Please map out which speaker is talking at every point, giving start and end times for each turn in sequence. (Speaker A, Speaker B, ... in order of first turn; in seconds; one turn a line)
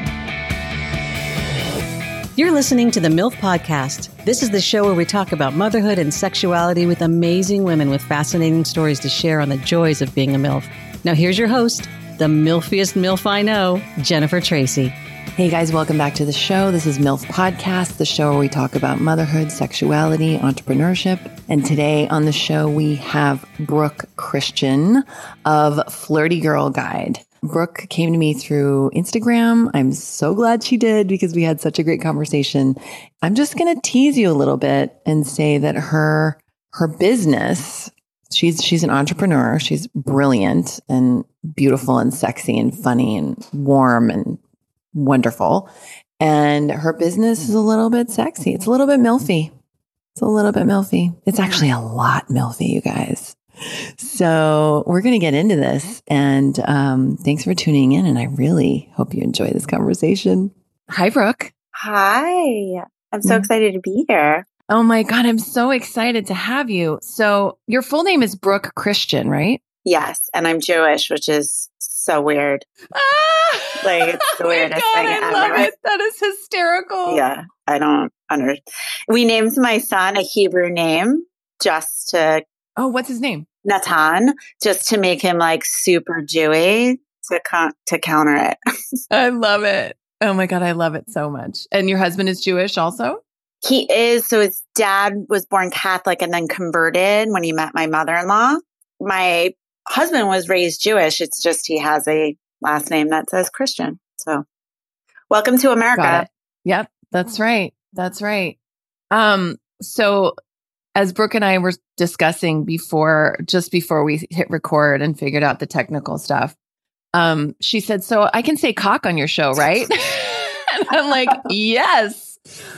Speaker A: 2.4-14.9
Speaker B: 15.3-44.4
Speaker B: 44.9-45.7
Speaker B: 46.2-49.5
Speaker B: 50.1-53.4
Speaker B: 54.0-61.5
Speaker C: 61.7-64.5
Speaker B: 64.7-69.6
Speaker C: 69.8-72.6
Speaker B: 72.9-77.2
Speaker C: 73.8-75.7
Speaker C: 77.0-82.4
Speaker B: 82.8-83.5
Speaker C: 83.6-88.6
Speaker B: 89.1-93.2
Speaker C: 93.6-104.5
Speaker C: 105.3-106.3
Speaker B: 105.9-108.6
Speaker B: 109.1-110.3
Speaker B: 111.0-116.5
Speaker B: 117.1-122.4